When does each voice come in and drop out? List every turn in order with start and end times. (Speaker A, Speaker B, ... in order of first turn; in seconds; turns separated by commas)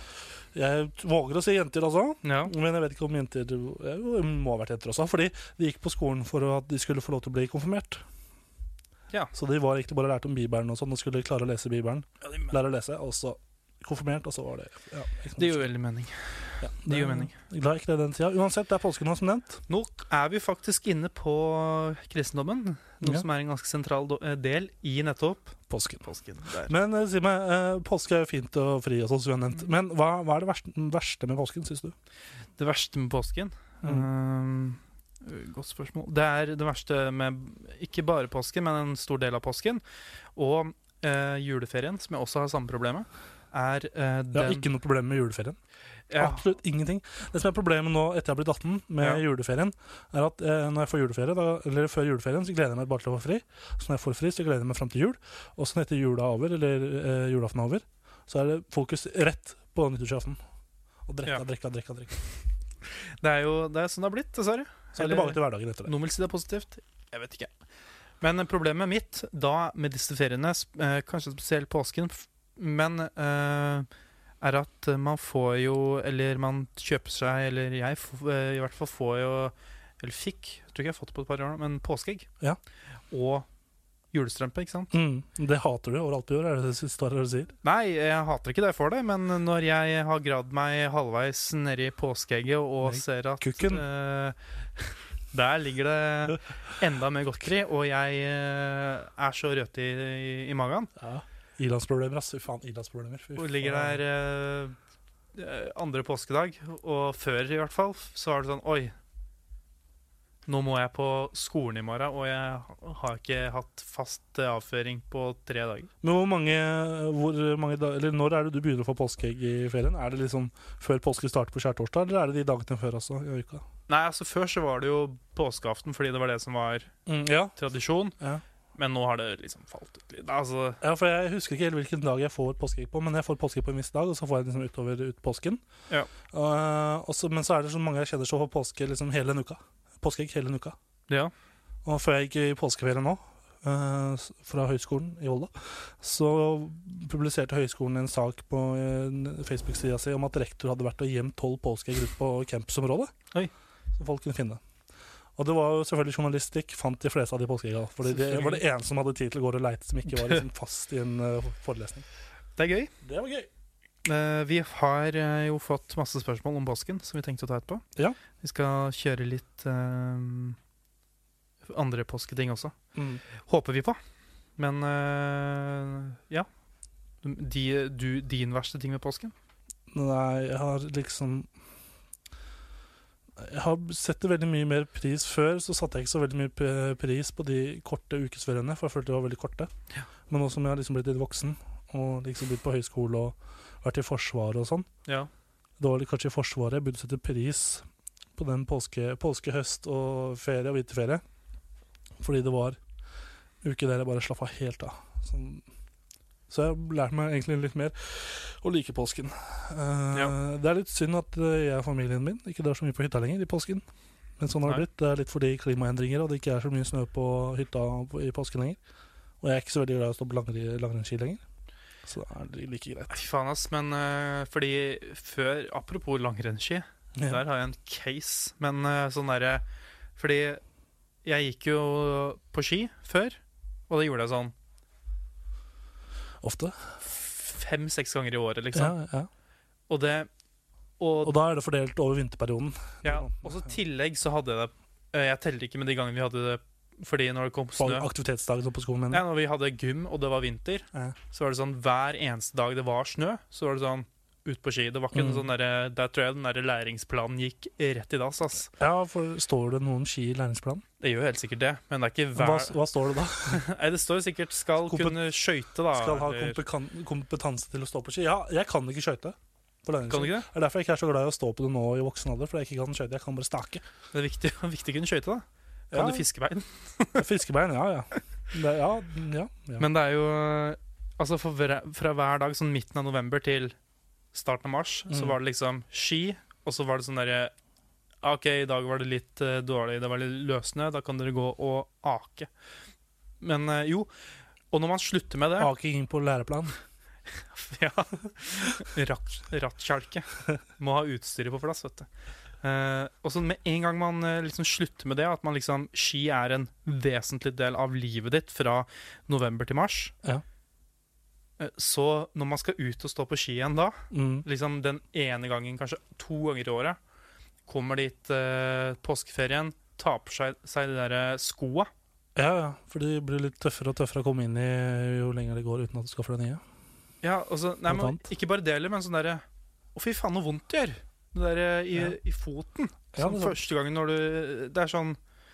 Speaker A: 0.5-8.0, Speaker B: 2.2-2.5, Speaker A: 9.3-15.7, Speaker B: 12.2-12.5, Speaker B: 15.4-17.3, Speaker A: 16.6-19.6, Speaker B: 19.7-26.7, Speaker A: 25.7-26.0, Speaker A: 26.7-31.9, Speaker B: 32.6-39.8, Speaker B: 40.4-44.7, Speaker A: 44.3-45.6, Speaker B: 46.1-46.4, Speaker A: 46.1-60.4, Speaker A: 61.1-62.2, Speaker B: 62.9-67.5, Speaker A: 65.0-65.9, Speaker B: 68.2-73.9, Speaker B: 74.4-82.3, Speaker B: 83.1-83.5, Speaker B: 84.1-84.9, Speaker A: 84.9-87.5, Speaker B: 87.6-94.4, Speaker A: 92.8-93.8, Speaker B: 95.3-100.9, Speaker A: 101.0-104.0, Speaker B: 103.4-104.8, Speaker B: 105.3-108.9, Speaker B: 110.5-115.9, Speaker A: 116.0-123.7, Speaker B: 123.9-126.9, Speaker A: 127.1-127.6, Speaker B: 127.6-128.2, Speaker B: 128.8-130.8, Speaker A: 130.8-135.6, Speaker A: 136.3-140.8, Speaker A: 141.8-153.1, Speaker A: 154.0-154.6, Speaker A: 155.4-162.1, Speaker B: 158.0-158.6, Speaker B: 160.1-160.4, Speaker B: 162.6-162.9, Speaker A: 163.0-163.5, Speaker B: 164.1-167.8, Speaker B: 168.4-170.6, Speaker B: 171.7-172.7, Speaker A: 172.9-173.2, Speaker B: 173.4-174.0, Speaker B: 174.6-176.5, Speaker B: 177.2-179.3, Speaker A: 179.9-181.5, Speaker A: 183.4-189.7, Speaker A: 190.3-194.9, Speaker A: 195.8-197.8, Speaker A: 198.4-201.2, Speaker A: 202.2-202.8, Speaker A: 203.6-205.6, Speaker A: 206.5-213.8, Speaker A: 214.4-218.8, Speaker A: 219.4-221.4, Speaker A: 222.1-223.2, Speaker B: 223.1-229.6, Speaker A: 227.2-227.4, Speaker B: 230.2-230.6, Speaker B: 231.2-234.5, Speaker A: 236.4-236.9, Speaker B: 237.0-239.0, Speaker A: 238.7-239.3, Speaker B: 239.9-240.3, Speaker B: 241.0-241.3, Speaker A: 241.2-243.7, Speaker B: 243.0-248.1, Speaker A: 247.8-249.2, Speaker B: 249.1-258.7, Speaker A: 255.1-255.4, Speaker A: 258.8-260.8, Speaker B: 261.0-262.8, Speaker A: 262.4-263.6, Speaker B: 263.4-266.6, Speaker A: 264.8-265.3, Speaker A: 265.9-273.8, Speaker B: 270.1-270.5, Speaker B: 274.1-277.3, Speaker A: 275.9-276.3, Speaker A: 277.2-279.9, Speaker B: 279.8-283.8, Speaker B: 284.3-287.5, Speaker A: 285.1-285.4, Speaker B: 288.2-292.5, Speaker B: 293.4-294.1, Speaker B: 294.7-295.7, Speaker A: 295.6-296.8, Speaker B: 297.5-302.1, Speaker B: 302.6-310.1, Speaker B: 311.6-317.0, Speaker A: 314.1-314.5, Speaker B: 317.7-321.9, Speaker A: 322.4-326.6, Speaker B: 327.2-329.4, Speaker A: 327.9-328.2, Speaker B: 329.9-335.2, Speaker A: 333.2-333.6